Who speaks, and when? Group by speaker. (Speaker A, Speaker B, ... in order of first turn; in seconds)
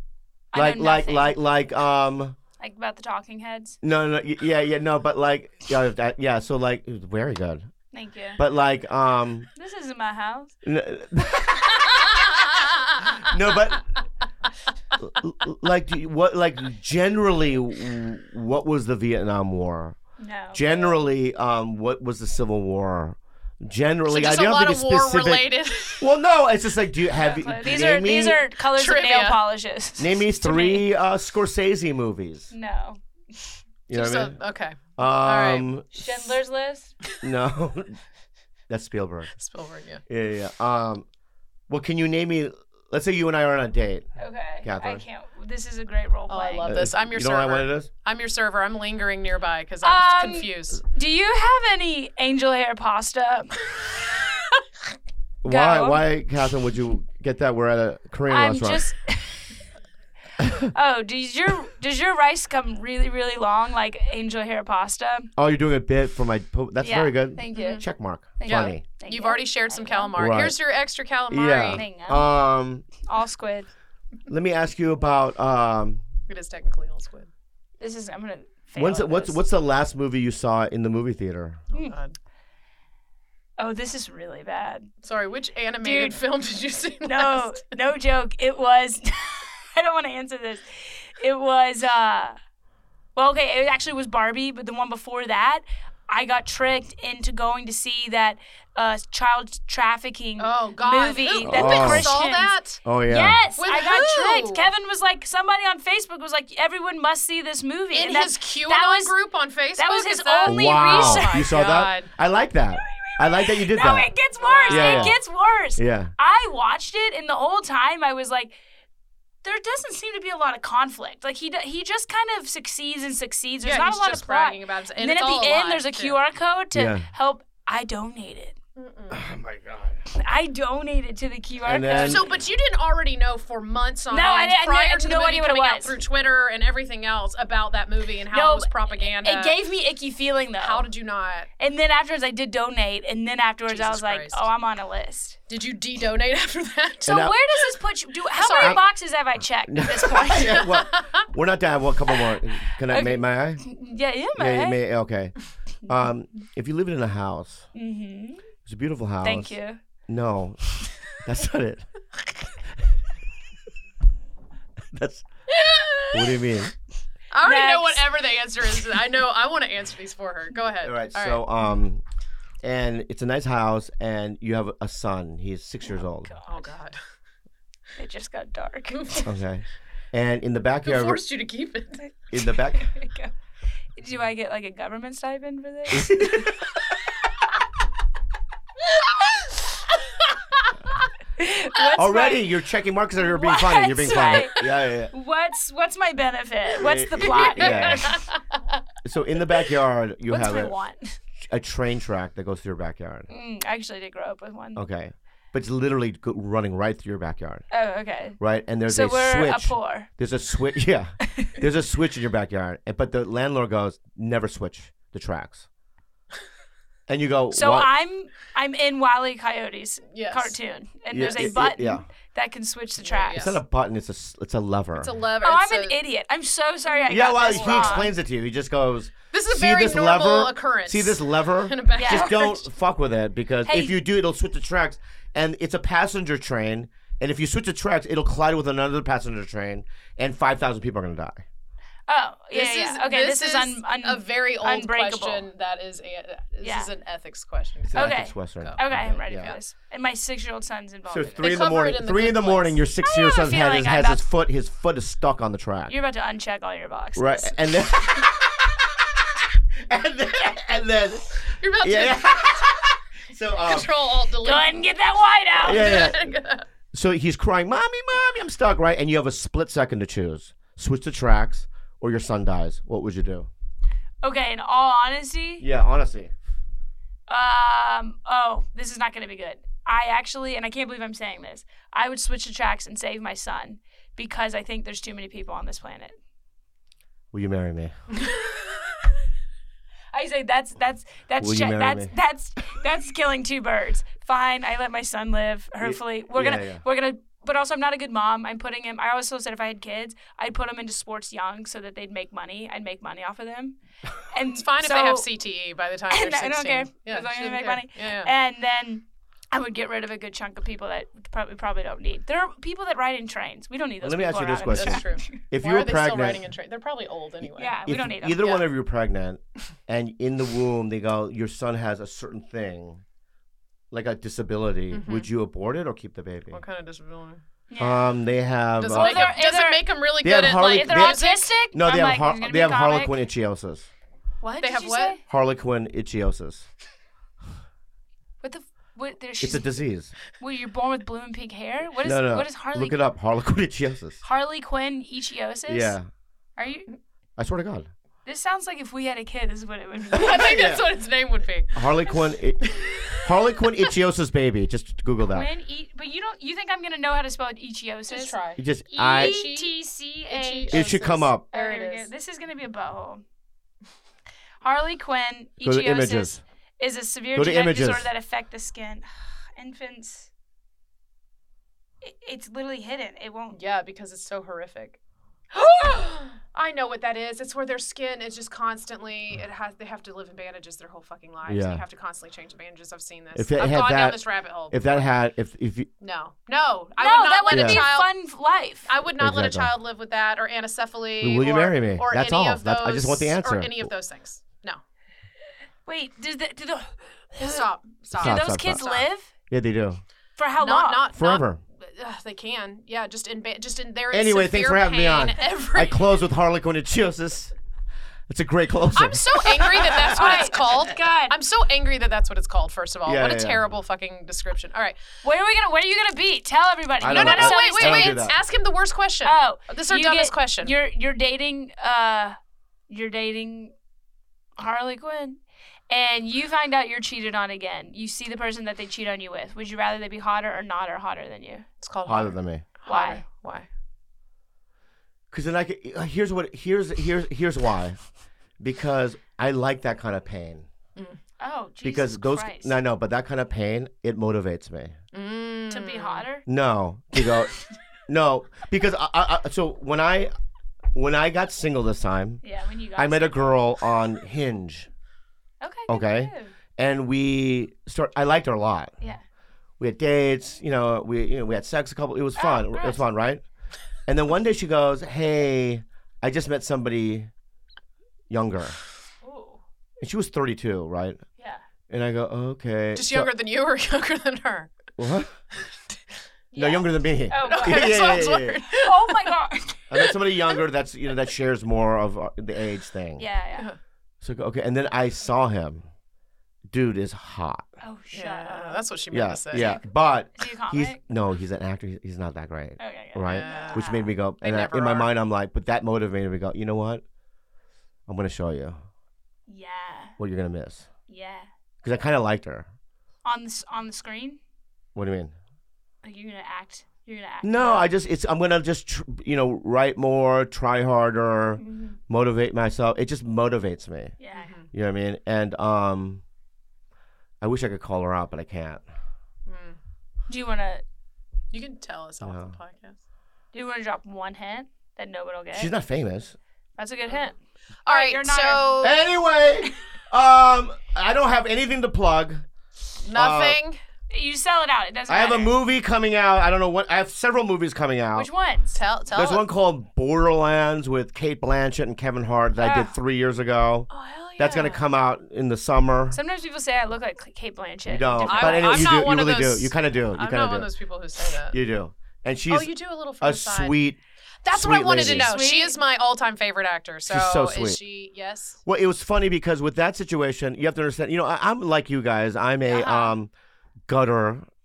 Speaker A: 0.5-1.4, 2.6-3.8, 7.9-8.4, 9.6-10.6, 20.2-20.9, 27.1-30.9, 32.5-33.6, 35.9-37.0, 44.2-46.7, 49.8-54.0, 55.5-56.0, 58.3-59.5, 60.6-65.3, 66.8-67.8, 68.4-70.2, 71.7-72.3, 73.0-73.7, 77.8-79.4, 83.6-84.9, 85.8-86.2, 87.0-92.4, 93.2-109.2, 109.8-111.7, 112.8-118.6, 119.4-128.6, 130.1-132.2, 134.1-135.9, 138.3-140.9, 141.6-145.4, 147.1-150.7, 152.9-154.8, 157.8-158.4, 159.2-159.8, 167.4-168.1, 176.2-176.8, 178.0-179.2, 182.4-183.3, 184.0-186.6, 191.4-192.5, 193.2-198.3, 200.3-201.2, 203.3-204.8, 207.7-210.1, 211.3-211.6, 217.5-223.5, 225.4-228.1, 232.0-232.5, 233.7-234.0, 242.1-245.5, 246.6-246.9, 247.9-251.6, 253.0-254.2, 255.9-257.6, 264.4-266.1, 274.2-275.6, 277.3-286.1, 288.3-289.1, 290.1-303.8, 304.3-305.3, 306.1-315.4, 317.5-318.5, 327.7-328.1, 328.9-329.9, 330.5-333.2, 334.4-335.2, 338.4-339.7, 340.4-343.0, 344.2-346.0, 346.6-346.9, 348.2-350.6, 355.3-358.4, 358.9-363.2, 364.6-370.3, 372.0-373.6, 387.0-388.9, 395.9-399.3, 400.4-401.1, 410.1-411.4, 415.2-418.2, 419.2-422.4, 422.9-423.7, 424.6-425.4, 425.9-431.7, 432.9-433.2, 441.4-442.8, 445.7-446.5, 452.4-453.6, 455.6-456.5, 462.4-463.1, 469.2-469.6, 476.5-478.2, 478.7-479.9, 483.2-483.7, 487.8-488.9, 489.5-489.8, 490.4-491.0, 492.8-494.1, 499.5-500.2, 501.1-501.5, 503.2-504.4, 506.0-507.9, 511.6-512.0, 514.2-514.5, 520.3-520.8, 523.5-525.7, 526.8-527.4, 527.9-529.0, 534.1-535.5, 538.1-538.8, 542.6-543.0, 546.1-549.0, 555.0-555.8, 562.7-563.1
Speaker B: 0.5-2.4, 3.8-7.7, 8.4-9.5, 10.6-12.3, 13.0-14.0, 15.0-20.0, 20.5-28.4, 30.0-32.5, 33.9-34.4, 35.0-36.1, 37.2-38.0, 38.7-39.3, 40.1-41.1, 41.7-44.1, 44.6-45.0, 46.6-47.9, 55.4-58.9, 65.4-68.8, 70.2-70.6, 71.3-72.9, 74.3-76.0, 78.8-81.6, 101.5-102.1, 102.8-103.4, 110.5-114.1, 114.7-115.2, 115.8-116.1, 126.7-127.1, 129.1-130.0, 131.7-132.3, 147.1-147.3, 149.7-153.6, 154.4-157.7, 158.7-159.6, 160.1-161.9, 164.9-165.2, 166.1-166.7, 170.8-172.0, 172.6-176.3, 179.2-181.2, 182.3-182.9, 185.9-186.6, 192.0-195.1, 196.8-198.2, 199.0-200.7, 201.4-203.3, 204.8-207.7, 208.4-215.7, 217.1-217.9, 221.1-222.1, 223.3-225.2, 227.1-241.4, 247.9-249.6, 251.1-255.9, 257.2-258.7, 259.8-263.9, 265.6-266.3, 266.9-273.5, 275.6-276.3, 287.3-287.9, 291.4-292.1, 295.8-296.8, 314.0-316.4, 317.9-323.0, 323.9-326.6, 327.8-329.4, 330.2-331.2, 331.7-333.9, 335.3-336.7, 339.4-340.1, 342.0-344.2, 345.7-346.1, 347.4-347.9, 350.4-350.8, 351.8-355.5, 358.6-359.4, 360.7-361.4, 365.6-366.4, 367.4-368.1, 381.4-381.8, 383.4-385.9, 387.5-387.9, 389.2-389.7, 391.2-393.9, 398.2-400.0, 401.1-401.6, 404.1-407.5, 408.3-410.4, 413.1-413.7, 417.0-418.4, 432.1-432.7, 435.3-438.0, 438.6-440.7, 441.8-445.0, 446.5-447.6, 448.1-450.3, 450.9-452.4, 453.0-454.9, 455.9-458.9, 459.8-463.4, 464.1-467.3, 468.3-468.8, 470.0-471.2, 471.9-473.3, 475.0-475.4, 476.6-478.6, 479.9-483.2, 484.2-485.9, 486.7-487.7, 489.1-497.0, 498.1-498.8, 500.2-500.9, 501.8-502.7, 504.9-505.3, 507.4-514.1, 514.7-516.2, 517.4-518.8, 522.2-522.6, 525.5-526.4, 528.8-532.5, 533.1-533.6, 535.1-538.3, 539.1-546.2, 547.9-550.7, 551.5-554.0, 554.5-555.3, 557.1-557.8, 558.6-563.3, 563.9-564.5
Speaker C: 24.1-26.1, 28.7-29.4, 33.9-35.7, 39.4-40.0, 46.3-50.8, 67.5-67.8, 68.5-71.9, 76.3-77.3, 81.7-82.2, 85.0-87.6, 100.4-102.8, 103.6-104.7, 107.9-112.1, 114.4-115.2, 123.6-126.2, 128.8-129.2, 131.9-139.6, 140.6-141.5, 143.7-144.5, 145.5-147.3, 148.3-148.8, 150.7-151.0, 167.3-171.4, 176.5-177.0, 178.9-179.3, 180.8-182.1, 197.6-198.4, 220.1-220.6, 221.2-221.6, 223.0-223.6, 225.0-226.0, 226.9-228.1, 229.3-232.6, 242.5-249.6, 251.4-252.8, 261.6-262.7, 263.5-264.8, 265.6-266.7, 304.6-308.3, 314.7-317.9, 318.4-318.6, 324.9-325.3, 326.5-327.4, 328.8-331.5, 334.6-335.2, 350.1-351.9, 352.7-353.2, 358.1-359.7, 360.3-362.1, 373.5-375.0, 375.5-384.9, 386.0-388.1, 388.9-394.8, 397.4-399.0, 400.6-406.2, 408.9-415.0, 417.1-420.7, 431.8-433.7, 445.1-446.3, 472.9-474.8, 475.7-476.0, 477.4-479.4, 488.1-489.7, 493.3-495.1, 514.4-514.7, 519.5-519.8, 521.5-523.0, 527.9-529.0, 533.0-533.8, 538.7-539.5, 543.9-544.8, 548.3-551.6, 552.5-553.8, 554.4-558.6